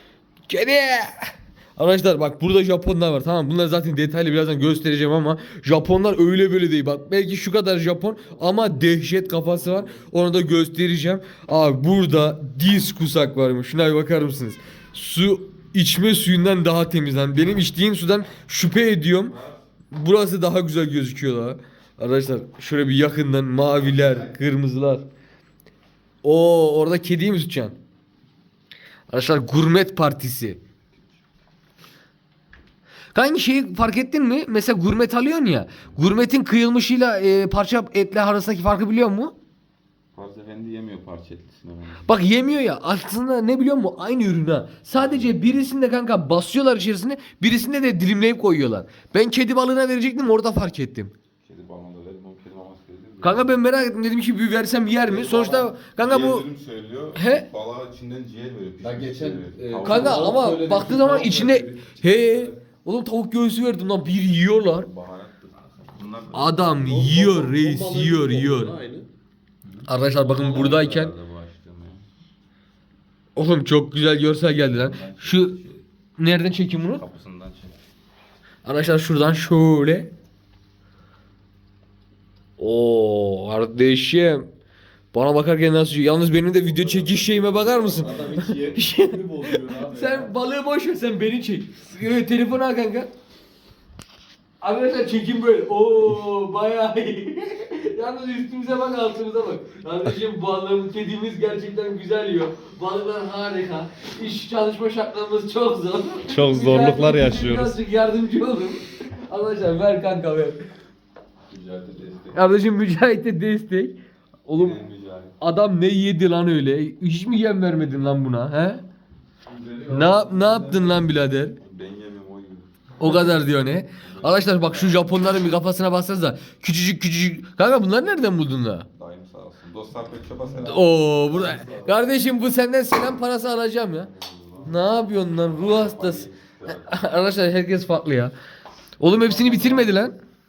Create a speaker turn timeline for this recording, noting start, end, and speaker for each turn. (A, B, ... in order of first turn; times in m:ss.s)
0:00.5-0:19.3 A
0:09.1-0:09.9 B
0:19.2-0:19.6 C
0:19.9-0:25.0 A
0:26.2-0:27.8 A
0:29.1-0:30.6 A
0:33.1-0:39.3 A
0:40.1-0:42.1 C
0:42.0-0:51.1 A
0:44.9-0:45.6 C
0:51.4-0:53.6 C
0:53.2-0:56.4 A
0:55.1-0:55.7 B
0:55.1-1:00.6 C
0:57.1-0:57.4 A
0:58.8-1:02.5 B
0:59.8-1:04.9 A
1:04.8-1:07.1 C
1:06.3-1:08.8 A
1:06.8-1:09.1 B
1:09.6-1:12.0 C
1:09.9-1:11.1 A
1:13.4-1:15.6 A
1:14.3-1:15.8 C
1:16.2-1:17.0 A
1:16.9-1:17.8 C
1:18.6-1:20.1 A
1:22.6-1:24.5 A
1:25.1-1:33.1 A
1:26.5-1:28.8 C
1:27.8-1:30.3 B
1:34.6-1:50.6 A
1:46.3-1:47.7 B
1:51.5-1:52.5 C
1:52.3-1:54.8 A
1:54.6-1:55.4 C
1:55.4-1:58.8 A
1:59.4-2:01.2 B
1:59.9-2:01.6 A
2:01.6-2:05.3 C
2:03.0-2:08.8 A
2:08.9-2:11.9 C
2:10.6-2:14.1 A
2:11.3-2:11.7 B
2:13.9-2:14.8 C
2:14.6-2:18.3 A
2:15.4-2:17.0 C
2:19.0-2:20.2 A
2:19.0-2:20.0 C